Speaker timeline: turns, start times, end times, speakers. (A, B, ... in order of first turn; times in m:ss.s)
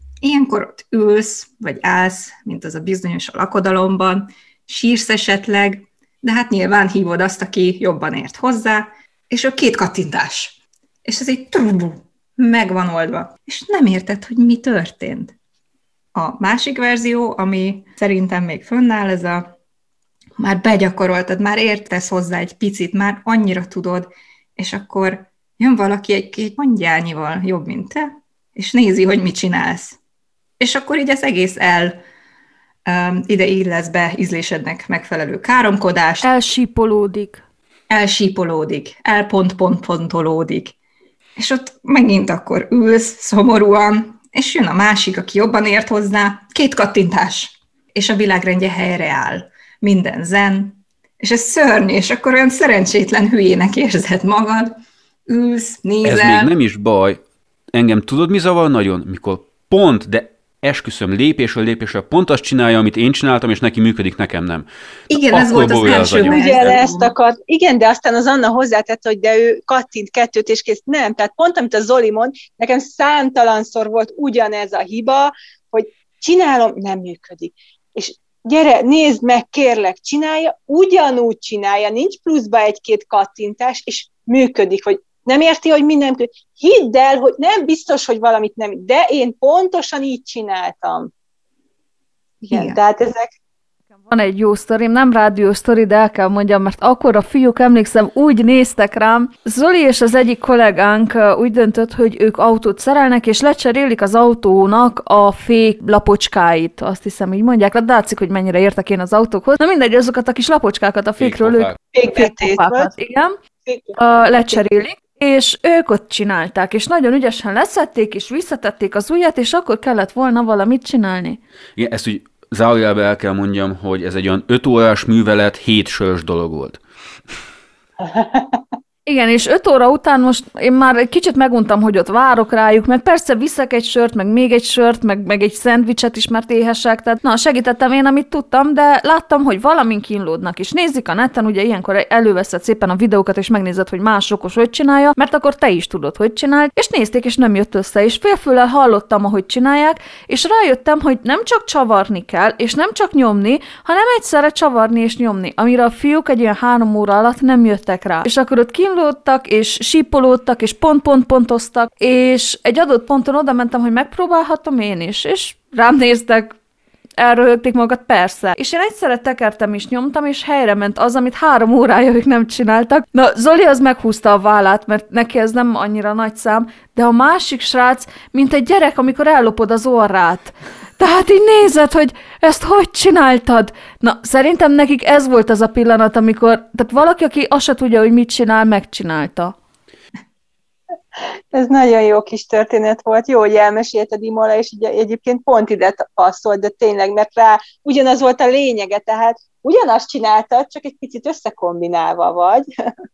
0:00.2-0:15.3 A
0:16.1-0:19.5 A
0:20.4-0:30.0 A
0:30.6-0:32.0 A
0:32.8-0:36.3 A
0:36.2-0:37.4 B
0:37.9-0:40.7 A
0:41.4-0:54.7 A
0:55.3-0:56.5 A
0:56.0-0:57.2 C
0:57.7-1:06.7 C
1:05.1-1:07.1 A
1:06.2-1:31.1 D
1:32.5-1:33.3 D
1:32.5-1:32.8 A
1:34.1-1:53.4 B
1:51.2-1:51.8 C
1:51.9-1:52.9 D
1:53.7-1:53.9 D
1:54.0-2:01.4 B
2:01.8-2:06.8 C
2:08.0-2:08.6 D
2:09.0-2:46.5 B
2:47.2-3:09.5 B
3:11.5-3:22.6 D